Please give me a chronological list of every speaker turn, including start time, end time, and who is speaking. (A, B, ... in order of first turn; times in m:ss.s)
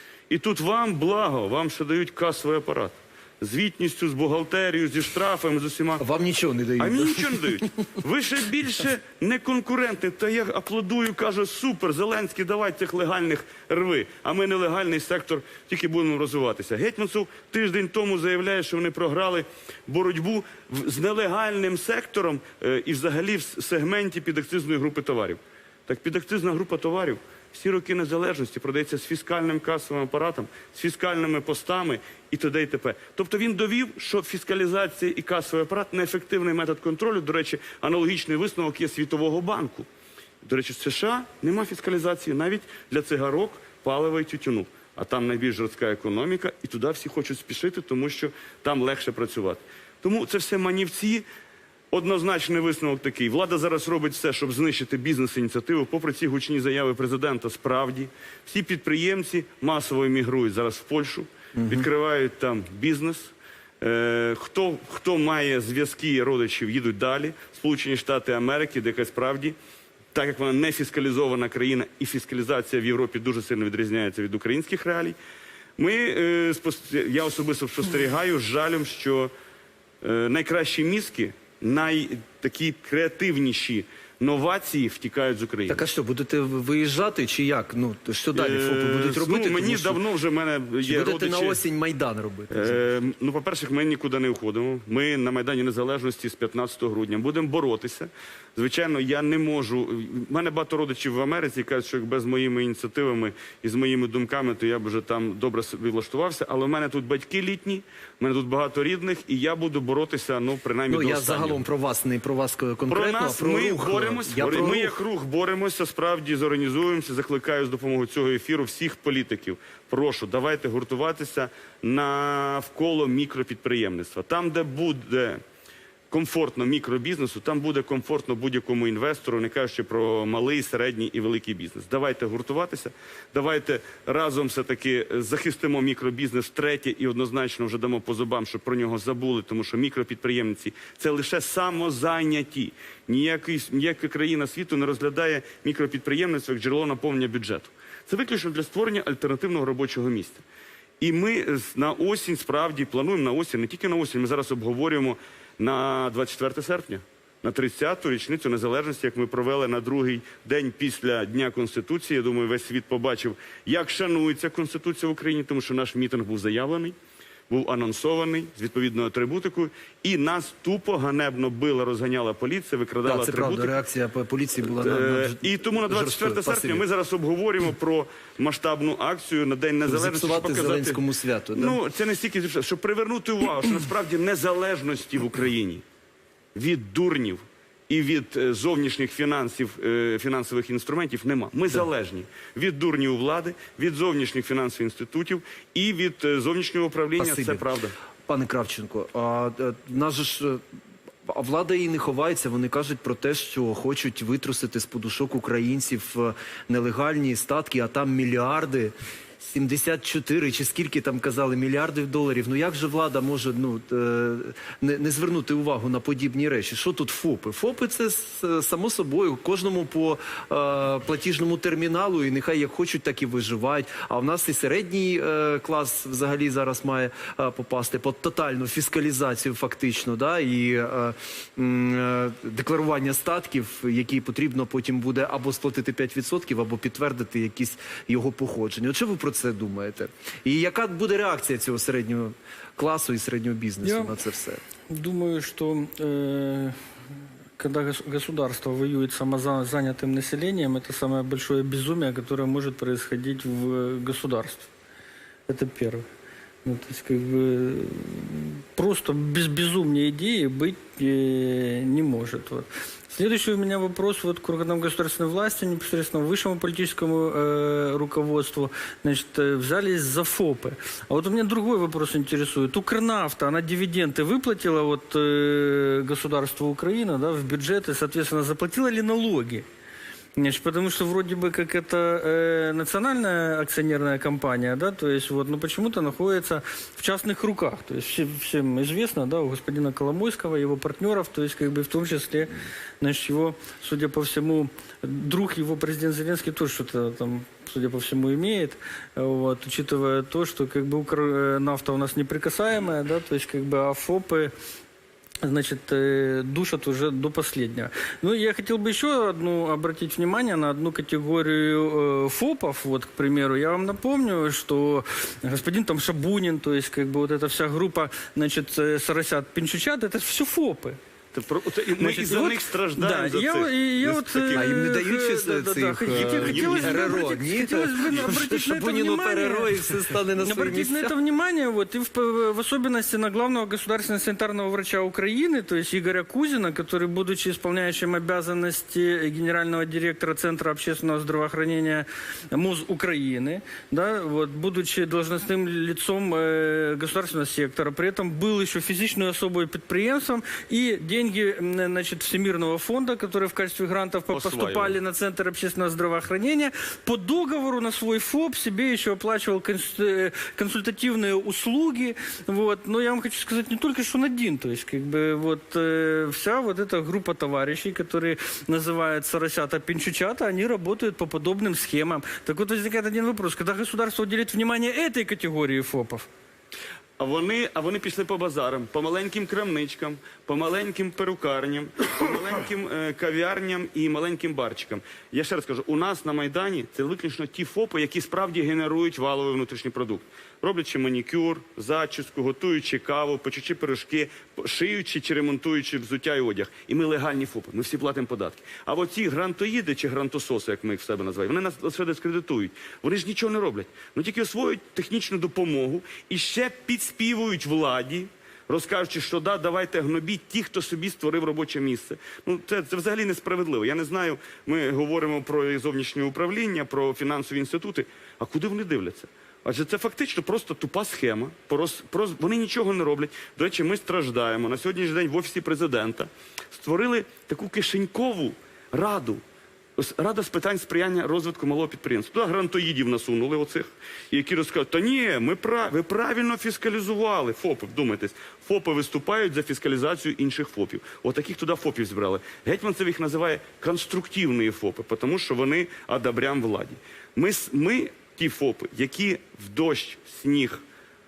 0:00.3-0:06.0 A
0:06.0-0:07.6 B
0:06.8-0:39.9 A
0:40.4-0:51.2 A
0:51.9-1:09.6 A
1:10.1-1:15.2 A
1:15.8-1:19.3 A
1:20.0-1:25.8 A
1:25.7-1:30.0 B
1:28.3-1:31.6 A
1:30.8-1:32.8 B
1:32.5-1:51.6 A
1:50.9-1:54.9 B
1:52.9-2:05.4 A
2:06.1-2:30.4 A
2:31.0-2:46.9 A
2:47.5-2:53.8 A
2:53.0-2:56.8 B
2:54.6-3:01.0 A
2:59.8-3:01.8 B
3:01.5-3:05.8 A
3:06.5-3:17.9 A
3:17.2-3:17.6 B
3:18.3-3:20.6 B
3:21.3-4:04.6 B
4:04.9-4:06.7 C
4:07.6-4:14.7 C
4:15.5-4:16.0 C
4:16.6-4:39.6 C
4:40.4-5:04.5 C
5:05.4-5:21.0 C
5:21.3-5:24.8 A
5:22.1-6:16.3 C
5:24.5-5:31.2 B
5:26.1-5:27.3 A
5:54.3-5:55.0 A
6:17.2-7:09.4 A
7:10.0-7:30.8 A